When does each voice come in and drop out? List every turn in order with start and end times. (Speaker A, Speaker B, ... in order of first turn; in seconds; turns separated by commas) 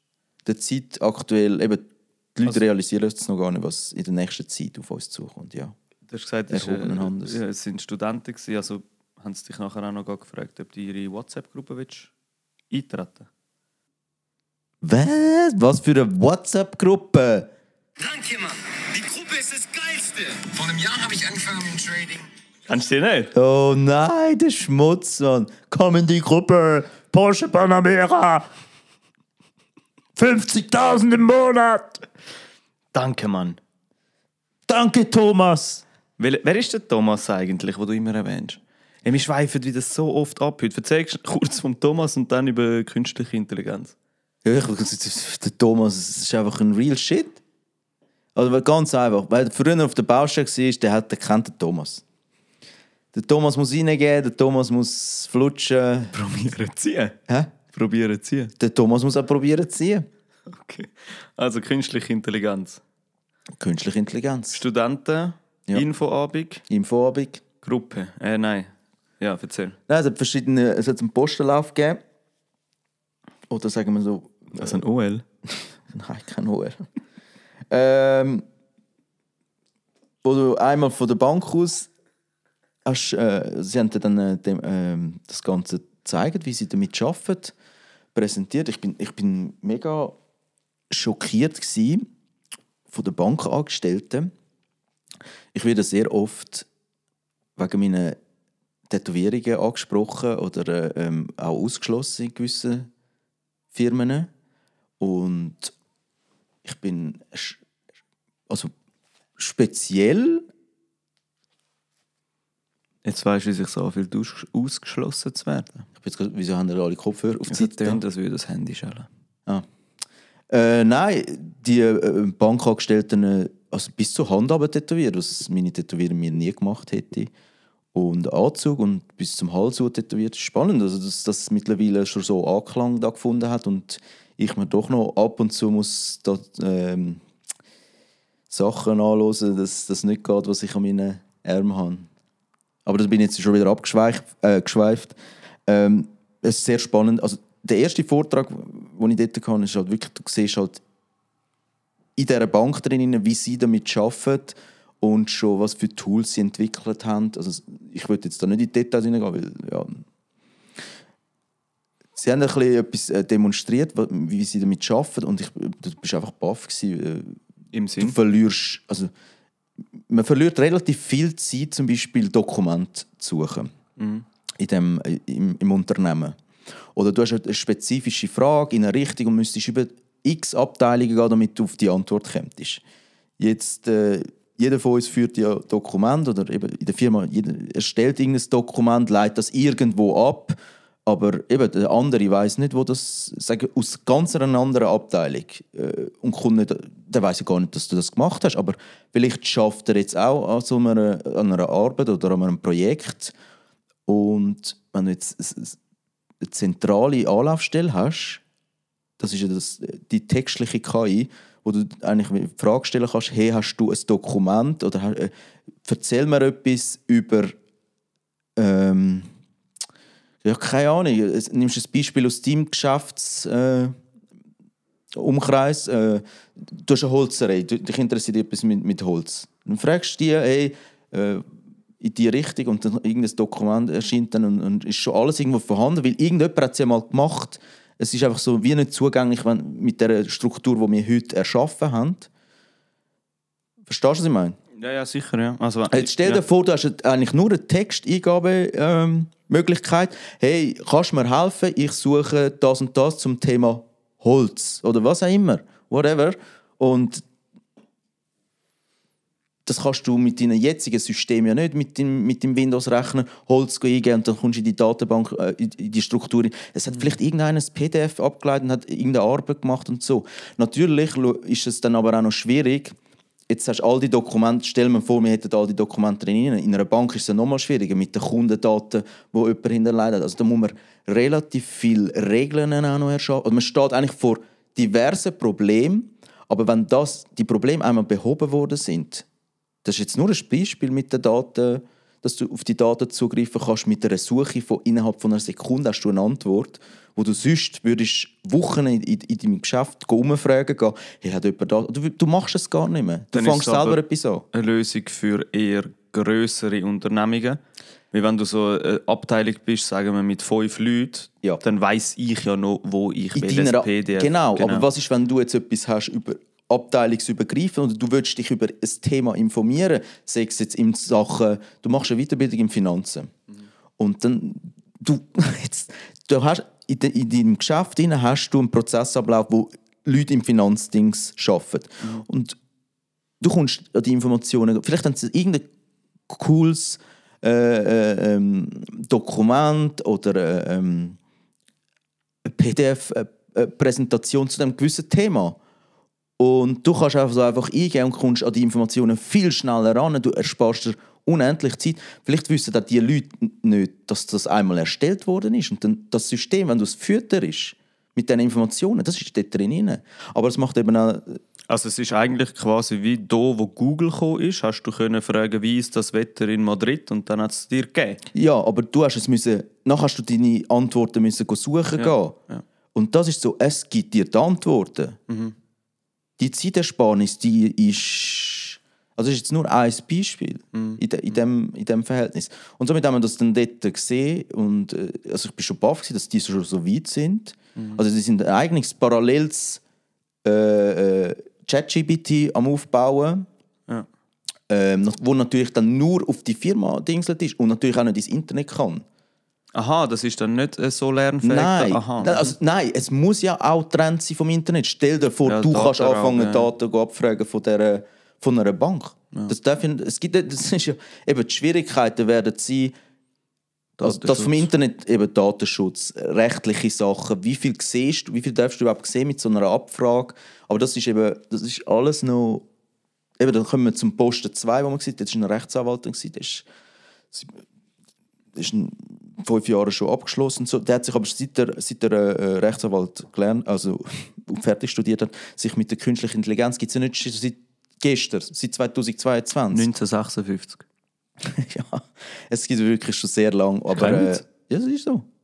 Speaker A: 0.5-5.8, Speaker B: 6.1-12.1, Speaker A: 6.5-7.4, Speaker B: 12.7-13.3, Speaker A: 14.8-17.5, Speaker C: 18.0-22.3, Speaker B: 22.7-23.3, Speaker A: 23.3-28.4, Speaker A: 30.2-32.0, Speaker B: 32.9-33.6, Speaker A: 34.7-35.8, Speaker B: 36.2-44.0, Speaker A: 44.4-47.4, Speaker A: 48.4-52.0, Speaker A: 53.1-56.1, Speaker B: 56.1-57.2, Speaker B: 57.7-58.5, Speaker A: 58.6-60.1, Speaker B: 60.5-62.8, Speaker A: 63.6-64.6, Speaker B: 64.5-66.6, Speaker A: 66.7-67.4, Speaker B: 67.6-69.8, Speaker A: 69.9-72.0, Speaker A: 73.5-74.8, Speaker B: 74.5-75.2, Speaker A: 75.9-76.8, Speaker A: 77.7-78.4, Speaker A: 80.2-81.9, Speaker A: 82.8-87.5, Speaker A: 88.1-90.2, Speaker A: 90.9-92.1, Speaker A: 92.9-94.3, Speaker A: 95.5-96.7, Speaker A: 97.6-98.2, Speaker A: 98.9-102.9, Speaker A: 103.7-104.3, Speaker A: 105.0-105.7, Speaker A: 106.6-107.6, Speaker A: 109.4-110.5, Speaker B: 113.0-115.9, Speaker A: 116.0-118.0, Speaker B: 117.5-119.1, Speaker A: 120.5-127.3, Speaker A: 127.9-137.2, Speaker A: 138.5-142.1, Speaker A: 142.8-145.2, Speaker A: 145.7-150.8, Speaker A: 152.2-160.0, Speaker A: 162.2-167.4, Speaker B: 167.7-168.2, Speaker A: 168.0-169.1, Speaker A: 170.1-173.7, Speaker B: 174.0-174.2, Speaker A: 174.6-176.4, Speaker A: 176.9-182.8, Speaker A: 183.4-203.3, Speaker A: 204.1-205.8, Speaker A: 206.4-208.4, Speaker A: 209.2-215.3, Speaker A: 215.8-217.6, Speaker A: 218.6-219.3, Speaker A: 220.4-224.0, Speaker A: 225.1-231.5, Speaker A: 232.0-242.3, Speaker A: 243.9-244.6, Speaker B: 244.8-246.4, Speaker A: 245.9-257.2, Speaker A: 259.7-273.0, Speaker A: 273.5-289.3, Speaker A: 289.8-304.5, Speaker B: 303.3-304.0, Speaker B: 304.5-307.6, Speaker B: 308.1-314.9, Speaker A: 313.4-323.3, Speaker A: 324.0-332.6, Speaker A: 333.4-335.7, Speaker A: 336.3-341.2, Speaker A: 342.4-345.6, Speaker A: 346.4-361.4, Speaker B: 361.7-368.2, Speaker A: 368.3-372.4, Speaker B: 372.0-372.6, Speaker A: 372.9-375.2, Speaker B: 375.3-375.6, Speaker A: 376.4-389.8, Speaker B: 380.7-381.0, Speaker A: 390.4-393.5, Speaker A: 394.7-399.1, Speaker B: 399.8-402.5, Speaker A: 401.4-412.9, Speaker B: 405.4-406.7, Speaker B: 414.0-414.7, Speaker A: 414.0-422.7, Speaker A: 423.4-426.7, Speaker A: 428.6-439.9, Speaker B: 439.7-440.8, Speaker A: 441.4-445.3, Speaker B: 443.9-444.4